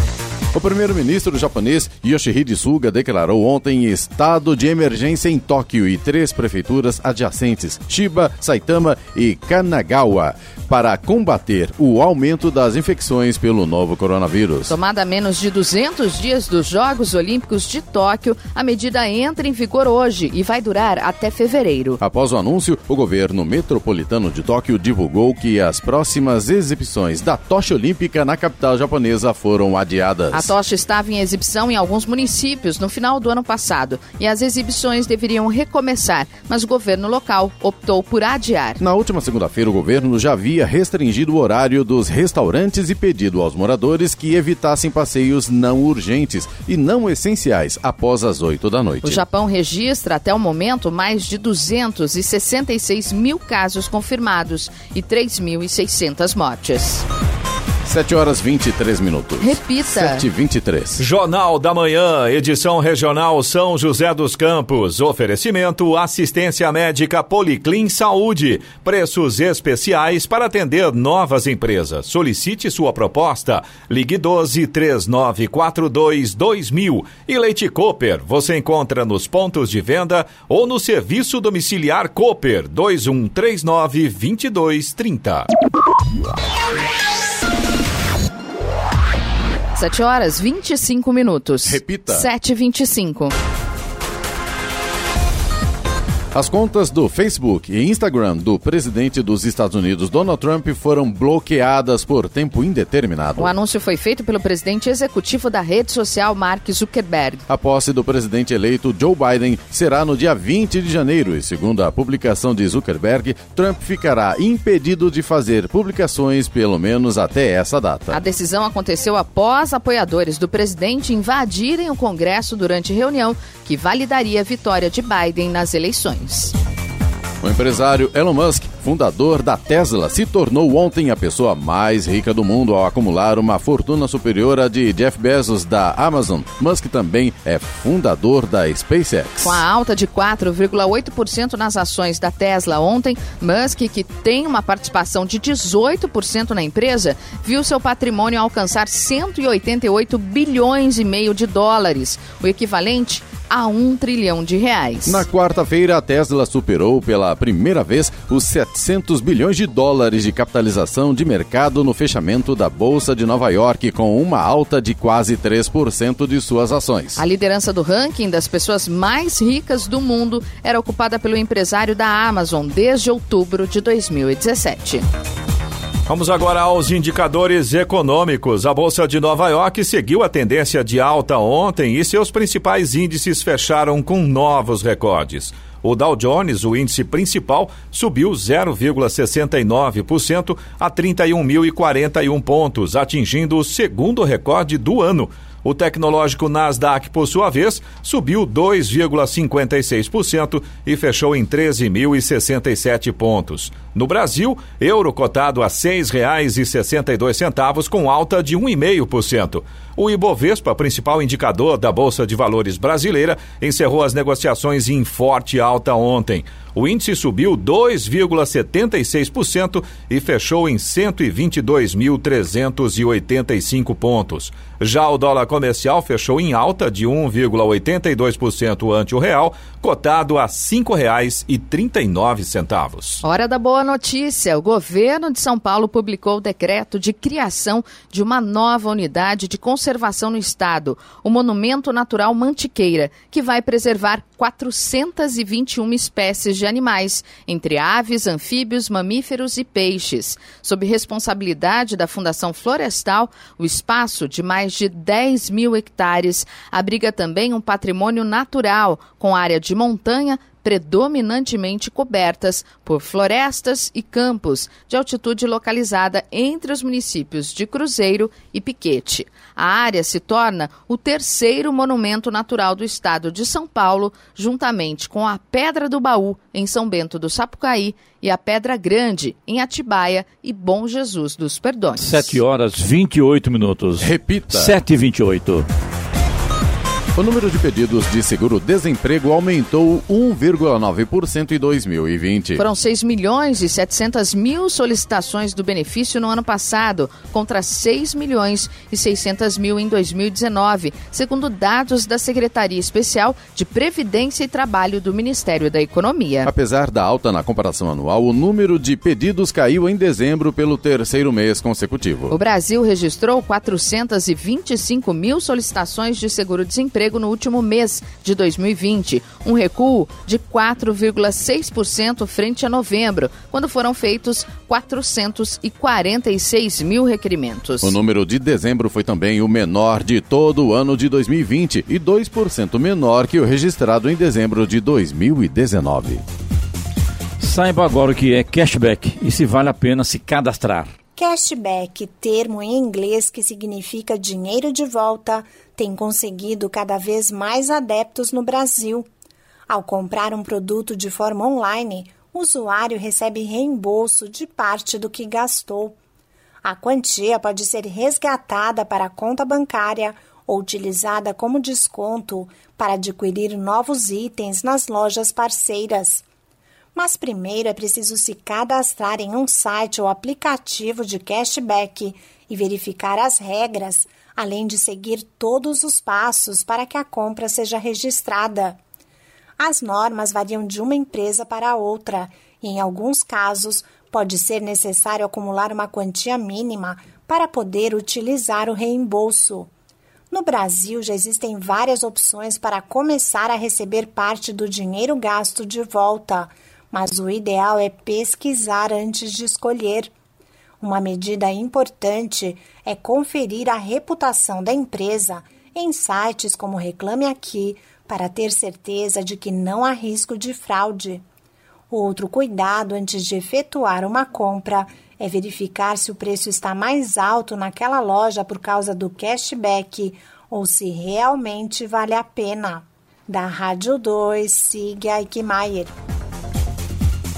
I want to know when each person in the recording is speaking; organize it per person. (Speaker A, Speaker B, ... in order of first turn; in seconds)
Speaker A: 0.5-14.7, 22.0-30.5, 38.8-49.2, 57.8-61.0, 91.6-92.3, 96.3-103.5, 107.5-118.2, 127.4-139.6, 155.1-167.2, 284.0-284.8, 287.1-292.6, 306.4-312.4, 327.8-336.2
Speaker B: 14.7-22.0, 30.3-38.8, 49.0-57.0, 59.4-60.2, 89.7-93.3, 103.4-107.4, 118.1-126.5, 139.4-155.2, 167.2-175.1, 233.2-282.4, 292.6-306.5, 312.3-327.9
Speaker C: 61.0-85.5, 176.1-233.2
Speaker D: 282.0-285.6, 337.4-340.9
Speaker E: 341.1-349.1, 349.7-356.0, 356.6-366.2, 366.9-378.8, 379.6-389.7, 390.3-400.1, 400.8-411.2, 411.9-425.9